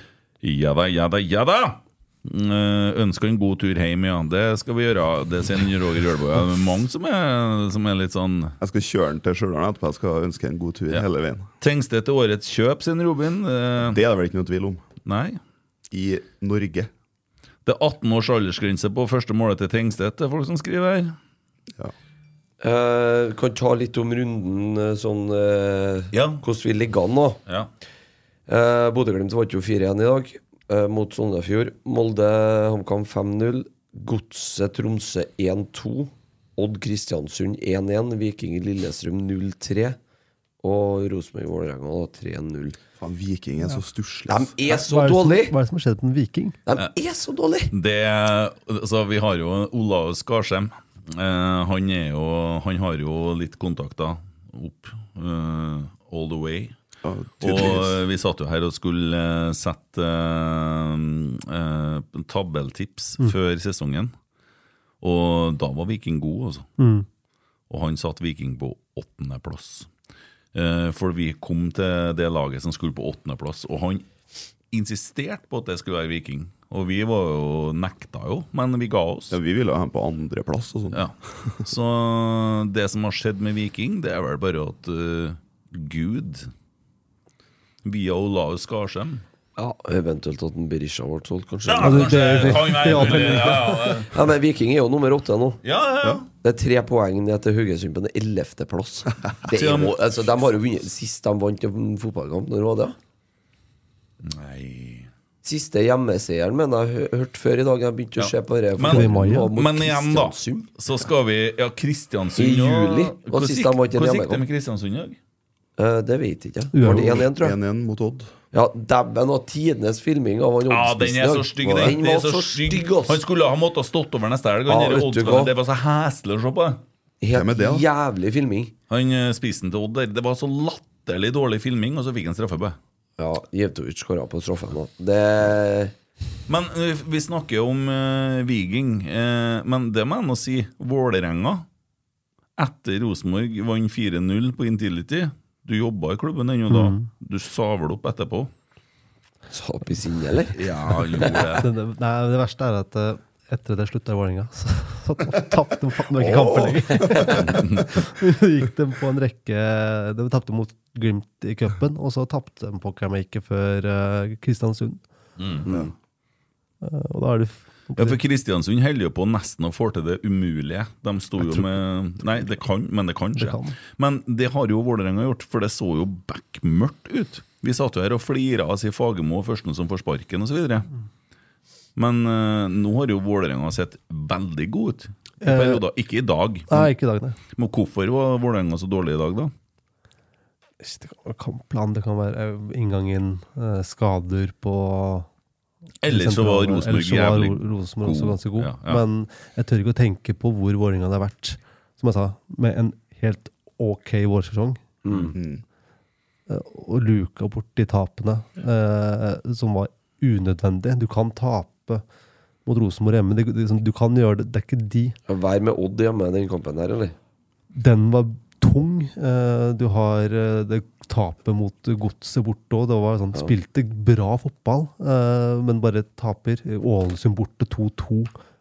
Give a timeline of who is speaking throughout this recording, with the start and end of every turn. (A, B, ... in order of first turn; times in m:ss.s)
0:00.4-0:08.6 A
0:08.6-0:11.5 B
0:11.6-0:14.0 A
0:13.8-0:14.8 B
0:15.0-0:15.4 A
0:15.9-0:16.9 B
0:17.6-0:21.1 A
0:22.6-0:27.4 C
0:26.1-0:26.4 A
0:28.5-0:40.0 C
0:40.6-0:42.8 C
0:43.0-0:44.5 B
0:44.3-0:45.6 C
0:44.6-0:46.6 D
0:46.6-0:47.7 C
0:47.7-0:56.8 A
0:57.0-0:58.0 B
0:57.4-1:04.1 A
1:05.0-1:06.7 A
1:06.8-1:07.1 D
1:07.7-1:09.9 A
1:10.5-1:14.1 A
1:14.7-1:19.4 A
1:19.3-1:21.0 B
1:20.9-1:26.5 A
1:27.8-1:29.2 A
1:29.6-1:35.6 C
1:31.6-1:34.2 A
1:31.8-1:34.0 D
1:35.6-1:36.3 A
1:36.4-1:43.0 C
1:39.5-1:40.0 A
1:44.2-1:45.1 A
1:45.4-1:50.7 C
1:48.2-1:55.2 A
1:48.8-1:49.5 D
1:52.4-1:54.4 C
1:55.8-1:57.5 C
1:56.7-1:57.2 D
1:56.8-1:58.3 B
1:58.5-2:03.2 C
2:00.7-2:06.8 A
2:04.7-2:05.5 C
2:07.2-2:08.7 C
2:07.3-2:07.8 B
2:08.9-2:12.8 A
2:13.2-2:15.9 C
2:16.5-2:21.6 A
2:22.6-2:28.5 A
2:26.7-2:27.1 D
2:29.5-2:31.6 C
2:30.5-2:31.7 A
2:31.6-2:45.0 D
2:36.4-2:37.6 C
2:37.4-2:37.8 A
2:45.4-2:45.7 A
2:46.8-2:48.2 D
2:48.0-3:00.9 A
2:53.4-2:53.8 D
3:02.0-3:06.9 A
3:05.4-3:05.8 D
3:06.7-3:07.4 D
3:07.5-3:09.5 A
3:10.8-3:15.3 D
3:16.0-3:19.0 A
3:16.1-3:24.8 D
3:25.0-3:25.4 C
3:25.3-3:25.6 B
3:26.5-3:32.0 D
3:32.6-3:35.2 D
3:35.3-3:37.1 C
3:37.7-3:48.3 D